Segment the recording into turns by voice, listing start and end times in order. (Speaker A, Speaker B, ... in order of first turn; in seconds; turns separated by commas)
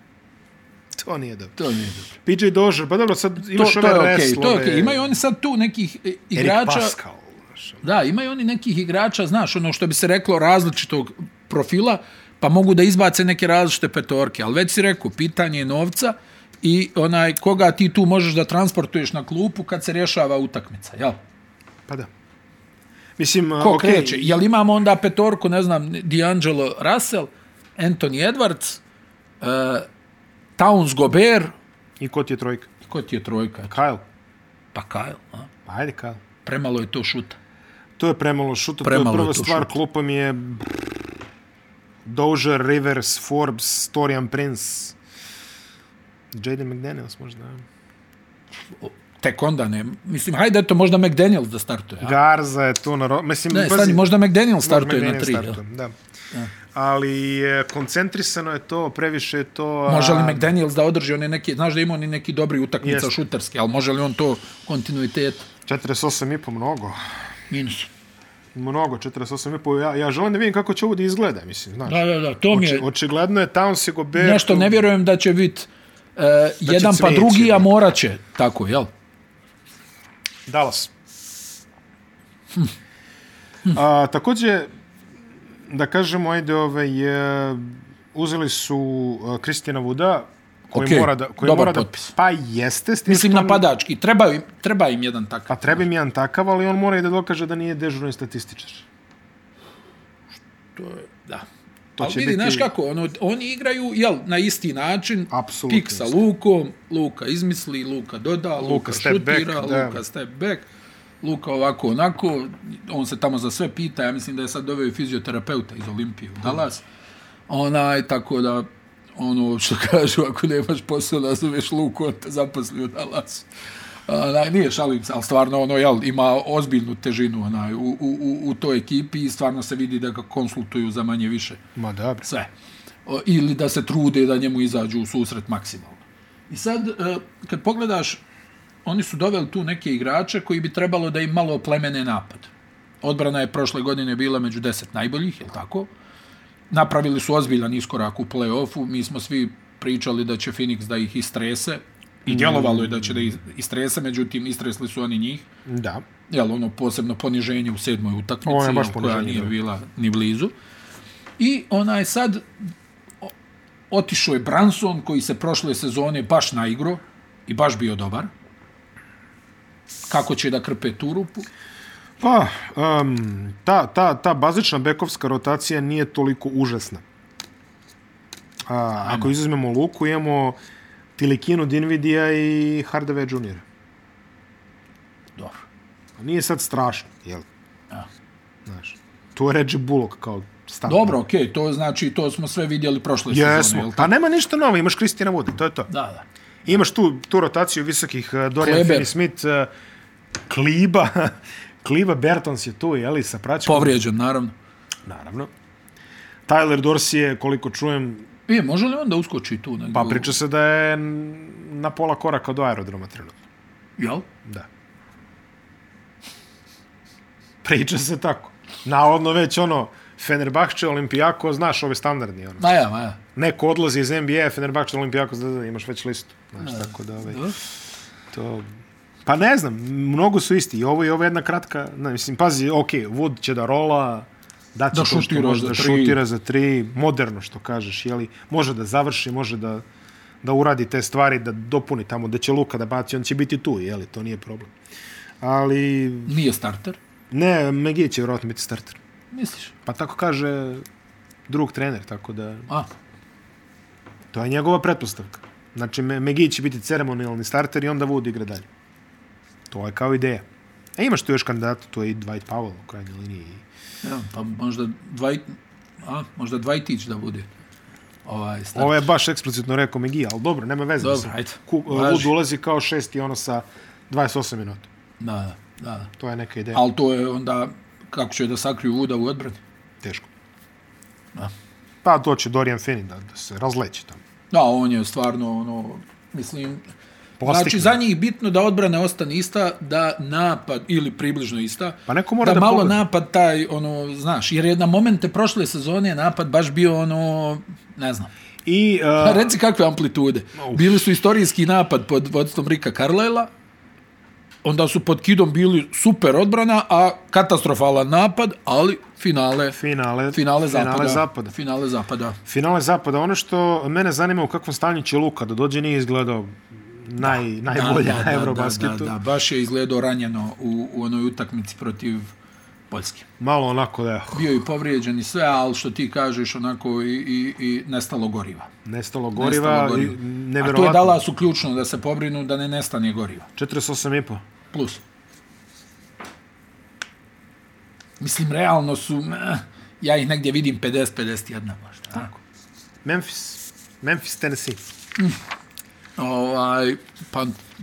Speaker A: 0.9-1.6, Speaker B: 1.6-2.1, Speaker A: 2.2-5.1, Speaker B: 3.5-6.9, Speaker A: 6.3-7.8, Speaker B: 7.8-21.2, Speaker A: 23.2-24.4, Speaker B: 23.6-28.8, Speaker B: 29.4-29.9, Speaker B: 30.6-31.5, Speaker A: 32.0-32.7, Speaker B: 32.9-33.8, Speaker A: 33.7-34.0, Speaker B: 34.7-35.5, Speaker A: 35.6-36.2, Speaker B: 36.4-37.4, Speaker A: 38.0-40.9, Speaker B: 38.8-39.7, Speaker A: 42.0-45.0, Speaker A: 46.3-47.6, Speaker B: 48.7-52.1, Speaker A: 52.0-54.1, Speaker B: 53.5-55.6, Speaker A: 54.6-55.9, Speaker A: 56.7-60.5, Speaker B: 59.9-65.5, Speaker A: 62.8-63.1, Speaker A: 65.7-67.0, Speaker B: 67.5-67.9, Speaker A: 68.5-74.8, Speaker B: 71.9-72.9, Speaker B: 74.2-78.9, Speaker A: 76.6-77.7, Speaker A: 80.5-80.9, Speaker A: 83.7-84.7, Speaker A: 85.7-93.6, Speaker B: 90.7-92.1, Speaker B: 93.1-95.8, Speaker A: 95.5-98.9, Speaker B: 100.8-101.5, Speaker A: 102.0-102.7, Speaker B: 102.0-110.7, Speaker A: 105.3-106.2, Speaker A: 108.6-110.0, Speaker B: 111.2-116.8, Speaker B: 117.5-123.5, Speaker B: 124.1-131.6, Speaker A: 131.8-132.2, Speaker B: 132.2-132.5, Speaker B: 133.1-138.2, Speaker B: 138.8-142.5, Speaker B: 143.0-145.9, Speaker B: 146.7-155.5, Speaker A: 152.3-153.3, Speaker A: 155.7-156.0, Speaker B: 156.3-160.5, Speaker A: 158.4-159.5, Speaker B: 161.4-162.4, Speaker B: 163.9-168.3, Speaker B: 170.1-171.5, Speaker A: 172.2-177.0, Speaker A: 178.7-180.6, Speaker B: 179.0-179.3, Speaker A: 181.2-183.6, Speaker B: 185.3-185.6, Speaker A: 186.2-187.4, Speaker A: 188.7-191.2, Speaker B: 190.8-194.1, Speaker A: 193.3-195.9, Speaker B: 195.9-196.2, Speaker A: 196.6-199.7, Speaker B: 198.6-199.1, Speaker A: 200.5-204.0, Speaker B: 203.6-204.5, Speaker A: 205.1-205.5, Speaker A: 206.5-208.3, Speaker B: 208.5-210.3, Speaker A: 209.9-213.3, Speaker B: 214.0-214.3, Speaker A: 217.6-222.7, Speaker B: 222.6-223.2, Speaker A: 223.3-227.5, Speaker B: 226.6-227.6, Speaker A: 228.3-228.7, Speaker A: 229.2-239.8, Speaker B: 234.9-236.2, Speaker A: 240.4-244.7, Speaker A: 245.4-246.3, Speaker B: 246.2-247.0, Speaker A: 247.3-249.0, Speaker B: 249.3-249.7, Speaker A: 249.8-250.8, Speaker A: 251.5-252.7, Speaker A: 254.3-258.7, Speaker A: 259.7-260.4, Speaker A: 260.9-263.6, Speaker B: 264.0-267.5, Speaker B: 268.2-269.1, Speaker A: 268.7-274.9, Speaker B: 271.0-272.3, Speaker B: 275.2-276.1, Speaker A: 276.2-276.8, Speaker B: 276.7-279.6, Speaker A: 280.0-280.3, Speaker A: 282.0-284.2, Speaker B: 284.5-286.8, Speaker A: 287.4-288.0, Speaker B: 287.4-298.3, Speaker A: 292.1-293.0, Speaker A: 298.6-299.5, Speaker B: 299.2-303.5, Speaker A: 300.6-301.0, Speaker B: 304.6-309.8, Speaker A: 309.7-311.5, Speaker B: 310.3-312.4, Speaker A: 312.4-319.1, Speaker B: 317.2-322.3, Speaker B: 322.9-323.2, Speaker A: 323.4-324.4, Speaker B: 324.3-328.7, Speaker A: 328.8-331.2, Speaker B: 329.4-333.5, Speaker A: 333.6-334.4, Speaker B: 334.7-335.0, Speaker B: 338.2-342.4, Speaker A: 343.0-344.8, Speaker B: 346.2-347.6